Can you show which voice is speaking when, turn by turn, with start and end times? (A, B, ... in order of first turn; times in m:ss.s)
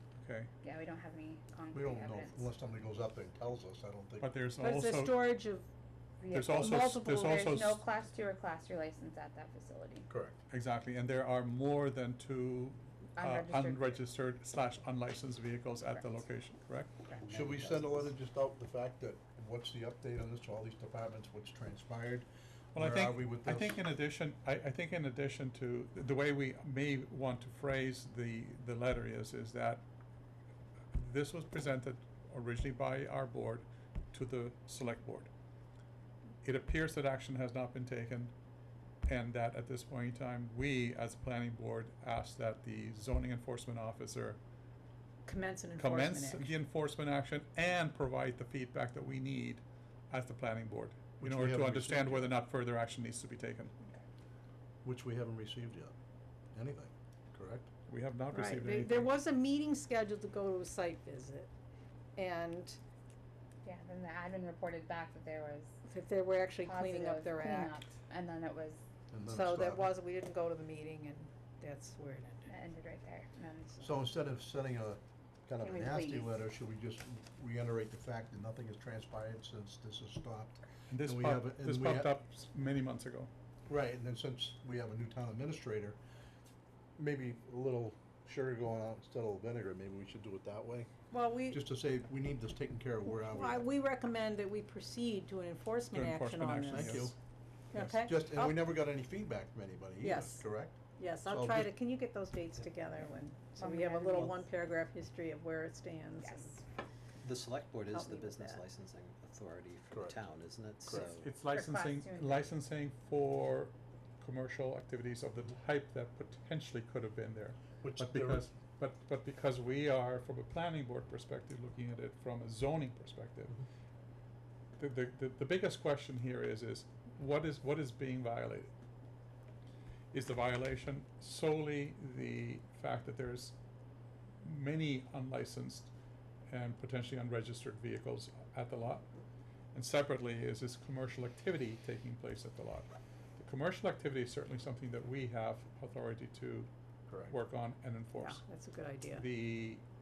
0:00.1-0:00.5 A
0:00.6-0:02.5 B
0:01.7-0:04.3 C
0:04.2-0:05.3 A
0:04.6-0:05.7 D
0:06.2-0:10.0 B
0:06.3-0:07.8 A
0:06.5-0:07.4 D
0:10.1-0:10.4 C
0:10.5-0:17.0 A
0:13.2-0:14.0 B
0:17.1-0:18.1 E
0:17.3-0:23.8 C
0:22.7-0:29.8 A
0:30.9-0:35.3 A
0:36.4-0:38.3 A
0:39.0-0:44.4 A
0:45.2-0:46.5 D
0:45.8-0:53.7 A
0:51.2-0:52.4 C
0:54.8-0:55.9 C
0:56.5-0:57.7 C
0:57.9-0:59.1 A
0:58.3-1:01.5 D
1:02.2-1:02.8 D
1:03.6-1:05.8 B
1:05.9-1:07.8 D
1:06.6-1:08.8 B
1:09.1-1:09.8 C
1:09.3-1:12.5 D
1:12.5-1:13.3 B
1:13.4-1:13.9 D
1:13.8-1:22.1 C
1:15.6-1:16.4 B
1:20.9-1:23.3 A
1:23.7-1:26.0 C
1:27.0-1:30.9 C
1:31.1-1:31.6 D
1:31.5-1:33.6 C
1:33.0-1:37.0 D
1:35.9-1:37.1 A
1:36.7-1:37.1 C
1:37.7-1:38.6 D
1:37.7-1:41.7 C
1:40.0-1:40.4 D
1:41.0-1:46.6 D
1:43.6-1:44.4 B
1:46.2-1:46.6 B
1:47.2-1:51.4 E
1:47.9-1:48.6 D
1:50.8-1:51.1 C
1:51.0-2:03.6 A
1:51.4-1:52.5 B
1:57.8-1:58.5 C
2:04.8-2:08.7 A
2:10.1-2:13.5 A
2:14.4-2:15.9 A
2:16.5-2:19.1 A
2:19.7-2:26.7 A
2:27.1-2:27.3 C
2:27.2-2:28.4 A
2:28.2-2:29.2 D
2:29.1-2:29.8 A